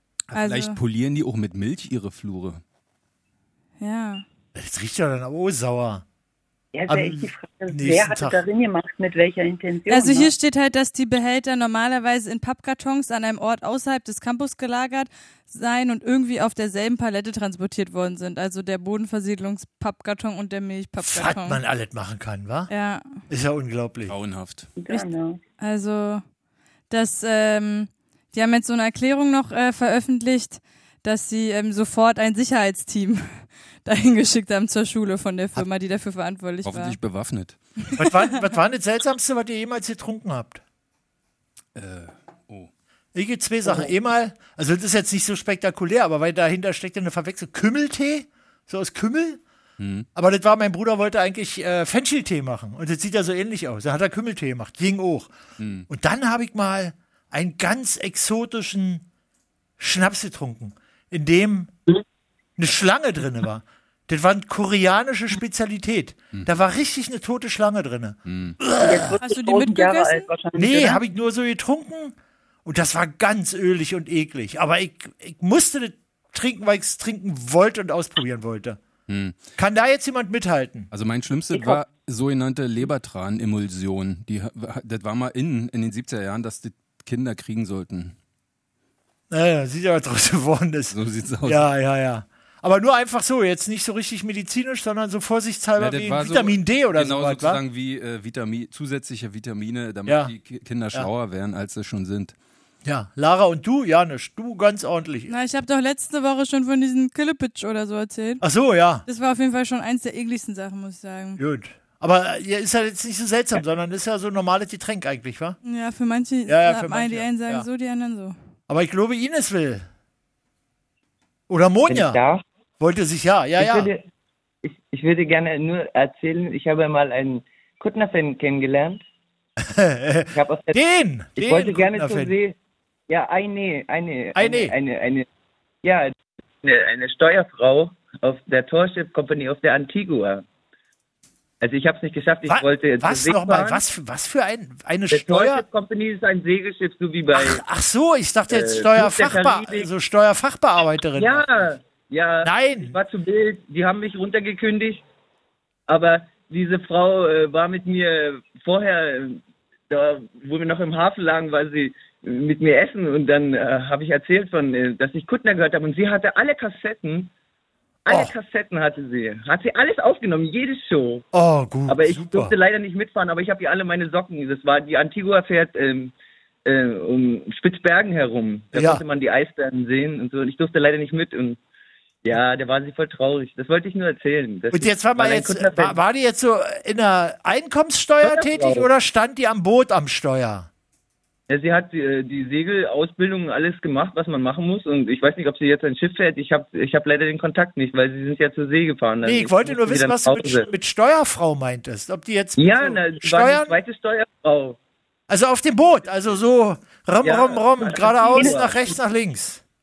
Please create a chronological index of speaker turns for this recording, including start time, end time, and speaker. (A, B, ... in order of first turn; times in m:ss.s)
0:00.3-0:02.6 A
0:00.3-0:00.8 B
0:03.8-0:04.2 B
0:04.5-0:06.0 C
0:06.7-0:10.3 D
0:06.9-0:08.4 C
0:09.9-0:21.6 B
0:21.0-0:22.7 C
0:22.7-0:23.2 B
0:23.3-0:24.1 C
0:24.1-0:24.7 A
0:24.8-0:25.4 D
0:25.6-0:26.2 B
0:26.9-0:37.0 B
0:36.6-0:37.6 A
0:38.0-0:40.6 C
0:41.7-0:42.7 A
0:43.1-0:49.4 C
0:49.8-0:50.1 A
0:50.1-0:55.3 C
0:55.6-0:55.9 A
0:55.9-0:59.0 C
0:59.8-1:01.7 C
1:02.6-1:09.2 C
1:08.3-1:08.6 A
1:08.8-1:11.0 D
1:09.2-1:10.3 B
1:10.5-1:18.8 C
1:19.1-1:19.4 A
1:19.6-1:20.9 C
1:20.9-1:28.1 A
1:29.3-1:37.6 C
1:30.9-1:31.7 A
1:35.8-1:42.3 A
1:40.0-1:40.3 C
1:42.8-1:45.3 C
1:45.3-1:48.4 B
1:48.4-1:49.0 C
1:49.1-1:51.4 B
1:51.4-1:55.6 C
1:55.6-1:58.3 B
1:56.5-1:57.6 C
1:58.7-1:59.8 C
2:01.5-2:02.2 C
2:01.9-2:02.4 E
2:02.8-2:03.9 C
2:03.6-2:04.0 E
2:04.6-2:09.0 E
2:09.6-2:12.3 C
2:10.3-2:10.8 E
2:11.4-2:12.6 E
2:13.1-2:15.2 E
2:14.3-2:14.7 C
2:15.8-2:20.4 E
2:21.6-2:23.8 E
2:22.4-2:25.6 C
2:25.1-2:27.6 E
2:27.3-2:31.4 C
2:28.5-2:29.9 E
2:31.2-2:35.0 E
2:32.4-2:33.0 C
2:35.9-2:47.3 E
2:48.0-2:51.2 E
2:48.1-2:48.3 C
2:51.3-2:52.5 C
2:51.9-2:56.1 E
2:56.6-3:01.6 E
2:58.7-2:59.0 C
3:02.2-3:06.0 E
3:04.7-3:10.7 C
3:08.2-3:08.9 E
3:11.5-3:20.7 E
3:19.2-3:23.8 C
3:22.6-3:24.8 E
3:25.3-3:29.6 C
3:27.2-3:28.8 E
3:28.3-3:28.7 D